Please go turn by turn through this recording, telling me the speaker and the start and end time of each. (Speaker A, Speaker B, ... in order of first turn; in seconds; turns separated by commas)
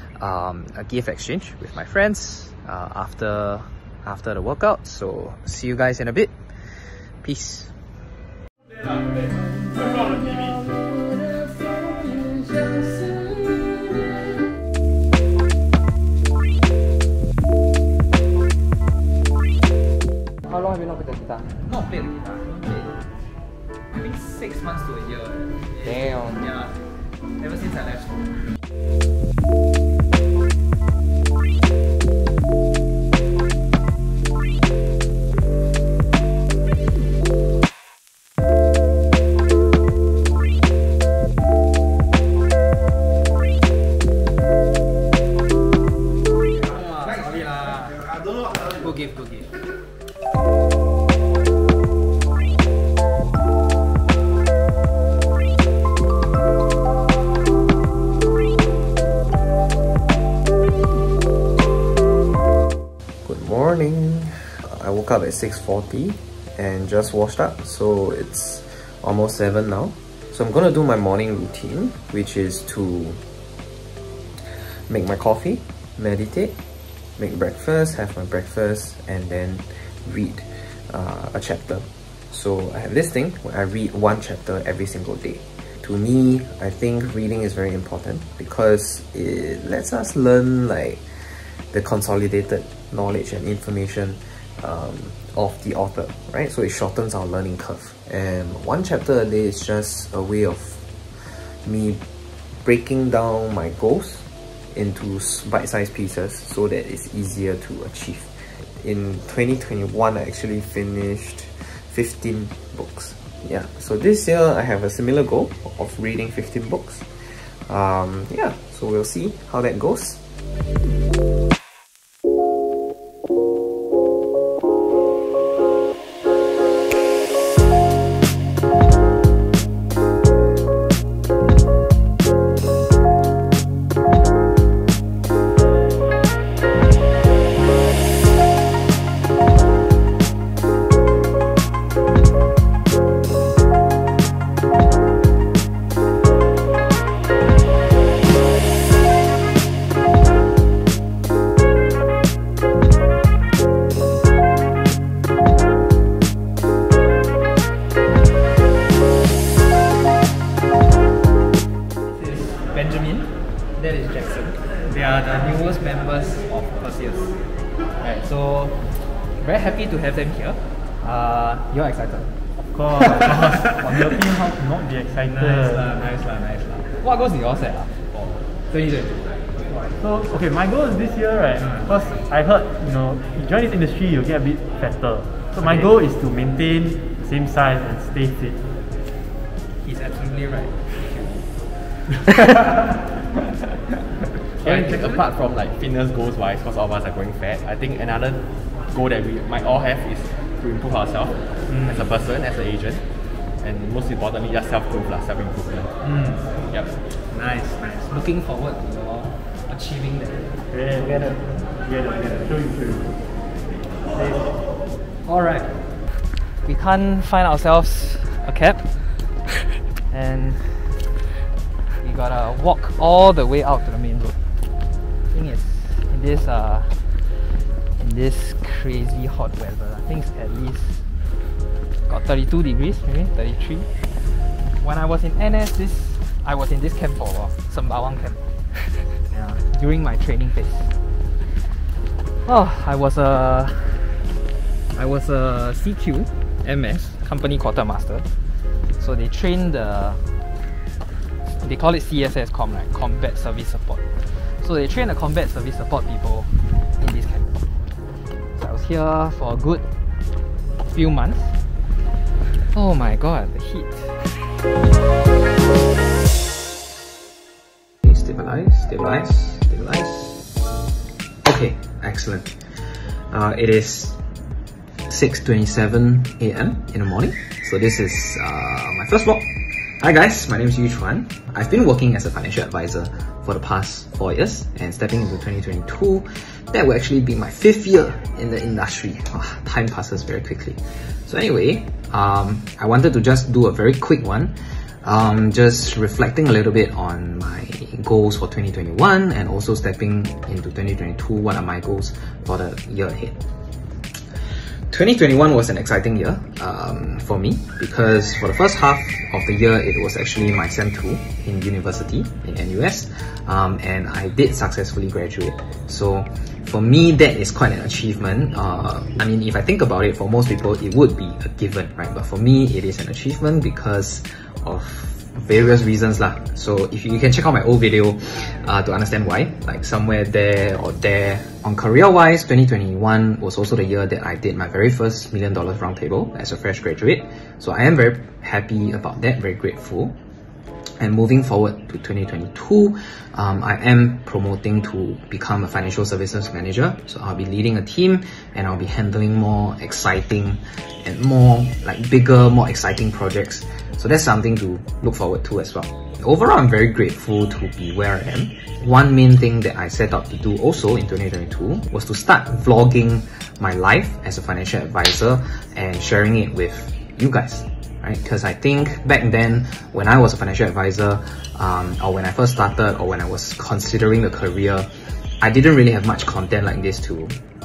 Speaker A: 0.2-7.7, Speaker B: 20.5-22.0, Speaker A: 21.9-22.9, Speaker A: 23.9-26.6, Speaker B: 24.3-26.7, Speaker B: 27.4-28.1, Speaker B: 46.7-49.4, Speaker A: 47.1-47.7, Speaker A: 63.2-73.2, Speaker A: 74.9-76.5, Speaker A: 77.2-102.0, Speaker A: 102.6-120.2, Speaker B: 162.1-167.4, Speaker B: 168.0-168.9, Speaker B: 169.4-172.2, Speaker C: 172.7-175.9, Speaker B: 173.0-174.1, Speaker B: 175.5-179.1, Speaker A: 176.1-177.1, Speaker C: 180.0-188.6, Speaker B: 189.8-191.5, Speaker B: 192.3-192.8, Speaker D: 194.6-205.9, Speaker B: 194.6-195.2, Speaker C: 206.1-206.3, Speaker D: 206.6-207.0, Speaker B: 207.3-210.5, Speaker C: 210.7-213.1, Speaker C: 214.1-214.5, Speaker B: 215.2-215.8, Speaker B: 216.6-219.3, Speaker B: 220.1-221.1, Speaker B: 222.0-224.3, Speaker B: 225.3-231.0, Speaker B: 232.1-233.9, Speaker B: 234.8-240.9, Speaker B: 242.4-244.2, Speaker B: 244.9-248.3, Speaker B: 249.0-250.2, Speaker B: 251.6-257.5, Speaker B: 258.6-259.9, Speaker B: 260.9-261.6, Speaker B: 262.7-264.3, Speaker A: 268.0-270.5, Speaker A: 271.4-274.2, Speaker A: 275.1-303.4, Speaker A: 304.9-340.2, Speaker A: 341.0-377.4